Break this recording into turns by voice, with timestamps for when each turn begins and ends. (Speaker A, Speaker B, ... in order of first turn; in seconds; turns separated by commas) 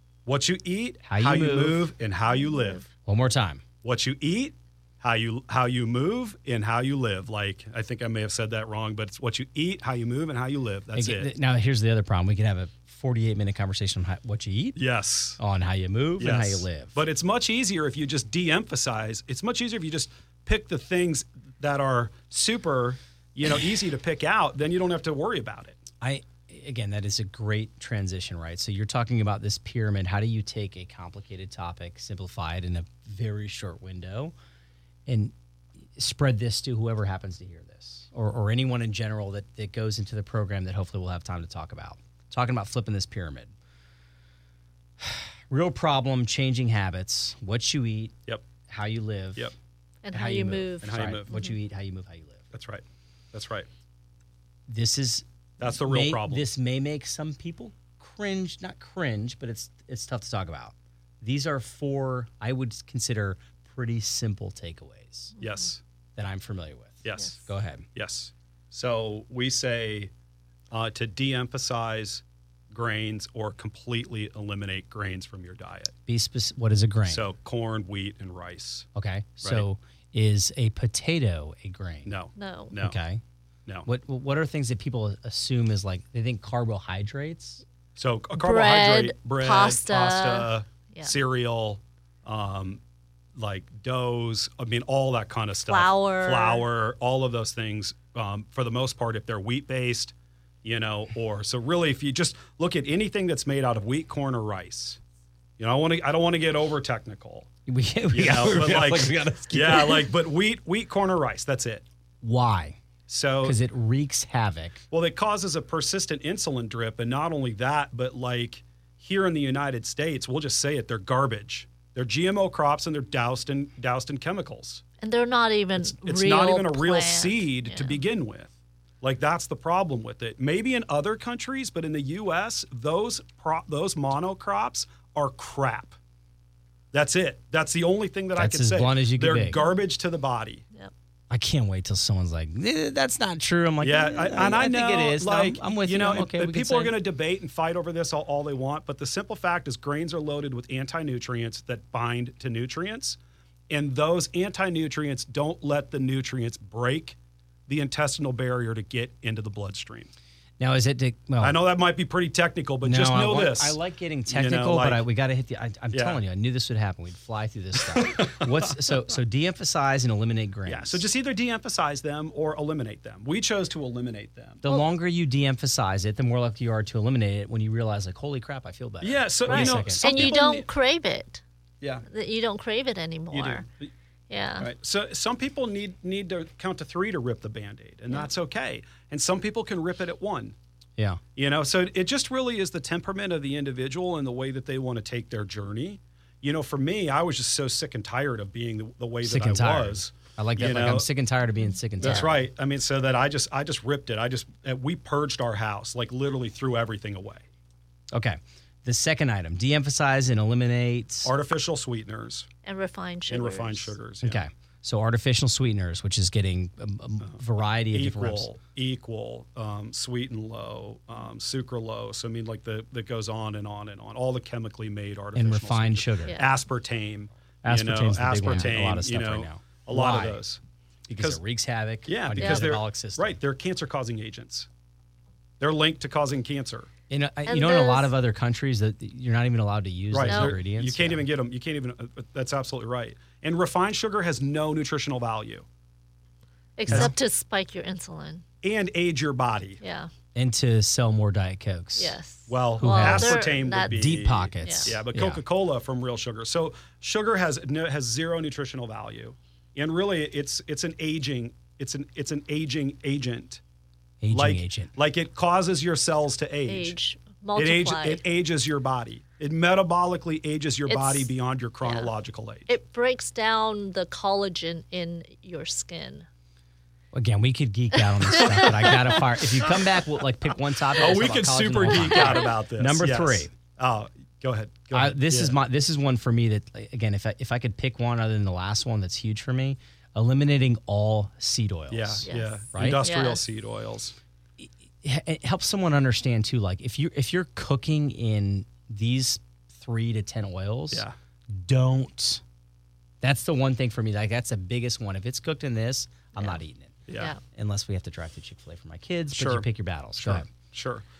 Speaker A: 0.3-2.9, Speaker B: 1.1-1.9, Speaker B: 3.1-3.6, Speaker A: 3.8-11.3, Speaker B: 10.9-14.8, Speaker A: 14.8-15.4, Speaker B: 15.4-17.0, Speaker A: 16.2-25.8, Speaker B: 26.0-34.3, Speaker B: 35.1-35.3, Speaker B: 36.0-43.5, Speaker B: 45.0-48.1, Speaker B: 48.7-49.5, Speaker C: 50.0-51.5, Speaker B: 50.1-52.5, Speaker A: 50.8-51.4, Speaker A: 52.5-53.7, Speaker B: 54.7-65.3, Speaker A: 55.6-56.5, Speaker A: 65.4-65.8, Speaker B: 66.2-67.9, Speaker A: 67.0-70.1, Speaker A: 70.7-75.9, Speaker B: 76.1-77.2, Speaker A: 77.1-78.9, Speaker B: 79.0-82.2, Speaker A: 82.1-83.0, Speaker C: 82.4-82.8, Speaker B: 82.8-83.2, Speaker B: 83.8-87.6, Speaker A: 88.0-92.8, Speaker C: 88.4-91.1, Speaker A: 93.4-105.0, Speaker C: 95.7-96.6, Speaker A: 105.6-107.5, Speaker B: 107.7-110.1, Speaker A: 108.1-111.8, Speaker B: 112.2-112.8, Speaker A: 113.1-113.6, Speaker B: 113.4-114.8, Speaker A: 114.9-124.8, Speaker C: 125.0-128.0, Speaker A: 125.8-136.0, Speaker A: 136.9-140.6, Speaker B: 138.4-139.6, Speaker B: 141.3-147.0, Speaker A: 143.8-153.2, Speaker A: 153.7-160.1, Speaker B: 160.6-161.6, Speaker A: 161.4-165.0, Speaker B: 162.8-171.0, Speaker A: 165.9-166.2, Speaker A: 167.9-168.7, Speaker A: 170.7-174.6, Speaker B: 174.6-180.4, Speaker A: 179.0-180.7, Speaker C: 179.5-181.4, Speaker C: 182.1-183.6, Speaker A: 183.3-183.9, Speaker C: 184.3-184.7, Speaker A: 184.6-190.6, Speaker A: 191.4-201.1, Speaker B: 199.2-202.4, Speaker C: 202.0-202.3, Speaker A: 202.0-207.4, Speaker B: 208.1-211.3, Speaker A: 211.2-212.5, Speaker C: 212.7-213.9, Speaker A: 213.3-214.4, Speaker B: 214.2-218.5, Speaker A: 217.2-230.6, Speaker B: 225.3-226.4, Speaker C: 226.3-226.5, Speaker B: 227.6-230.4, Speaker B: 231.1-233.4, Speaker A: 232.1-234.7, Speaker C: 232.4-232.7, Speaker A: 235.6-236.9, Speaker B: 237.1-241.2, Speaker C: 237.5-238.1, Speaker A: 240.1-245.7, Speaker C: 240.3-240.6, Speaker C: 246.8-248.4, Speaker A: 246.9-247.1, Speaker A: 248.6-249.8, Speaker C: 249.8-250.1, Speaker B: 250.3-252.2, Speaker C: 252.0-254.1, Speaker A: 252.5-263.6, Speaker B: 252.8-255.4, Speaker C: 254.6-254.9, Speaker B: 264.2-264.9, Speaker A: 264.3-267.0, Speaker C: 266.7-268.2, Speaker A: 267.6-272.7, Speaker C: 270.9-271.3, Speaker C: 271.8-272.1, Speaker C: 272.7-276.3, Speaker B: 277.1-283.5, Speaker C: 278.0-279.7, Speaker A: 280.9-285.6, Speaker C: 282.1-282.5, Speaker B: 284.9-293.0, Speaker A: 291.9-294.2, Speaker C: 292.2-293.4, Speaker B: 294.6-302.4, Speaker B: 303.2-310.5, Speaker A: 307.1-307.4, Speaker A: 309.4-309.7, Speaker A: 310.2-311.1